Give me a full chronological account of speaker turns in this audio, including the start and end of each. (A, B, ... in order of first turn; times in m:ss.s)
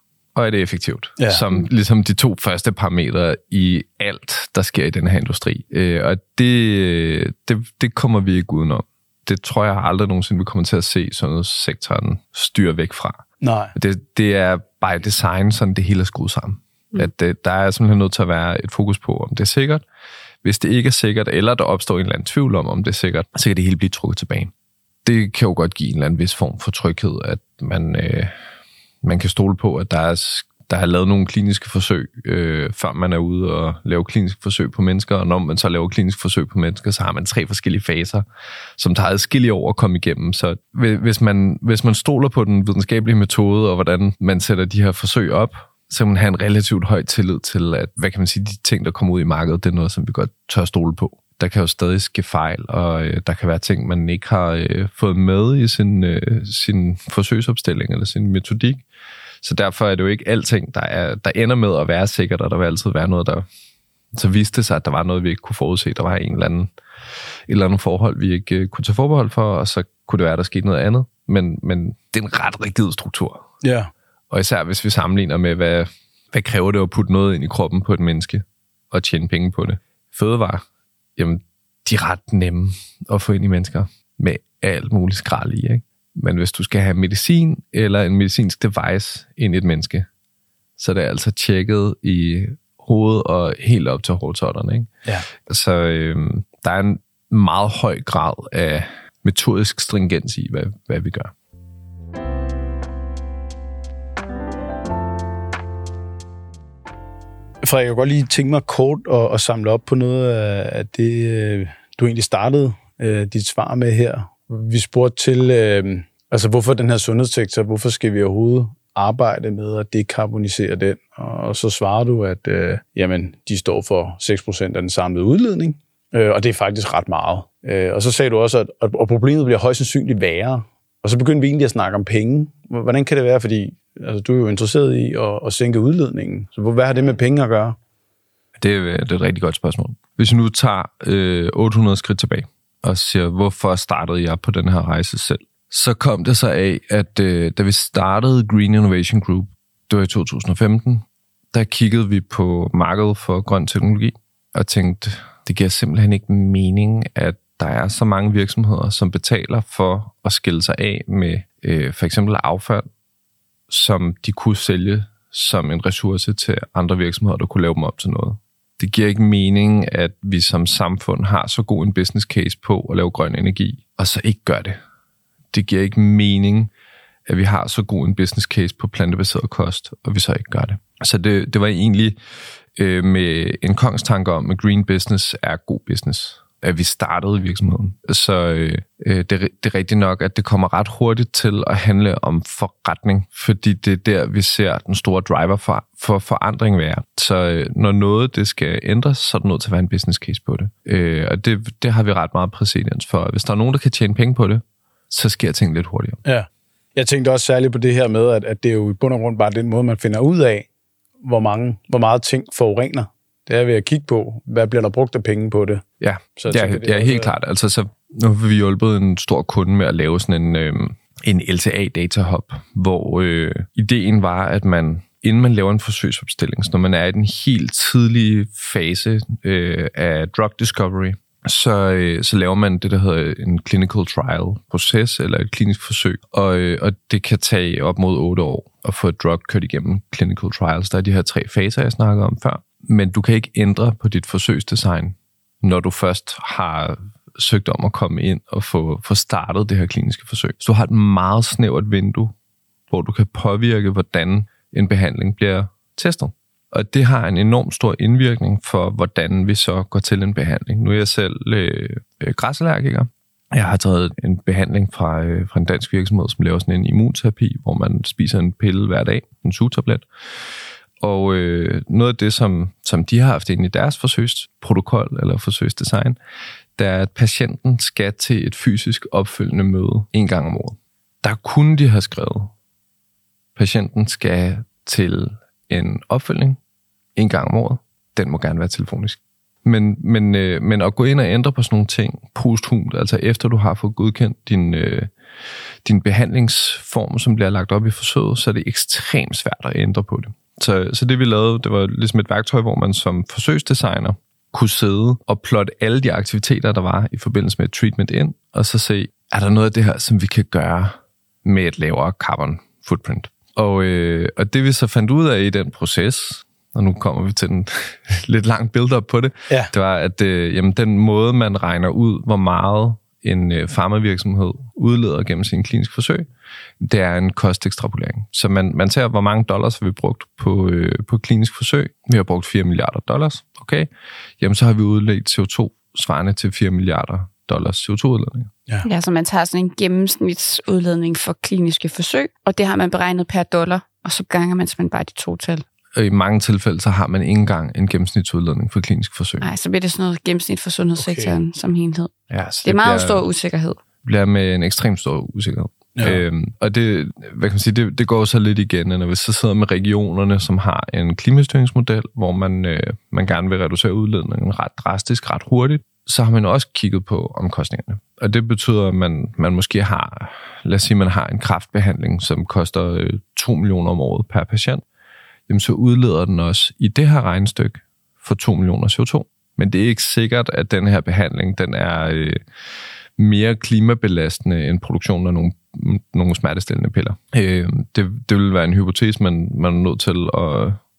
0:00.4-0:13.2 A
0:01.2-0:01.4 B
0:13.4-0:13.7 B
0:13.8-0:19.8 A
0:20.4-0:24.5 A
0:25.0-0:28.3 A
0:29.0-0:38.2 A
0:38.8-0:58.8 A
0:59.4-1:03.4 A
1:04.1-1:06.7 A
1:07.5-1:13.5 A
1:13.6-1:13.9 B
1:14.3-1:20.6 A
1:21.2-1:30.1 A
1:30.8-1:41.3 A
1:47.6-2:17.8 B
2:18.6-2:42.9 A
2:43.7-2:54.8 A
2:55.5-2:56.7 A
2:57.3-3:02.2 A
3:02.8-3:26.2 A
3:26.2-3:30.7 B
3:31.2-3:35.8 B
3:36.0-4:12.3 A
3:36.4-3:37.3 B
4:12.9-4:30.1 A
4:31.0-4:36.2 A
4:36.8-4:42.5 A
4:43.6-4:46.6 A
4:47.2-4:55.1 A
4:55.8-5:26.3 A
5:26.8-5:33.9 A
5:34.4-5:38.5 A
5:38.8-5:45.6 C
5:45.9-5:49.5 A
5:49.4-5:52.1 C
5:51.0-5:51.4 B
5:52.3-5:53.2 A
5:52.6-5:53.8 C
5:54.0-6:14.8 A
5:56.0-5:56.2 B
6:15.5-6:22.4 A
6:23.2-6:30.8 A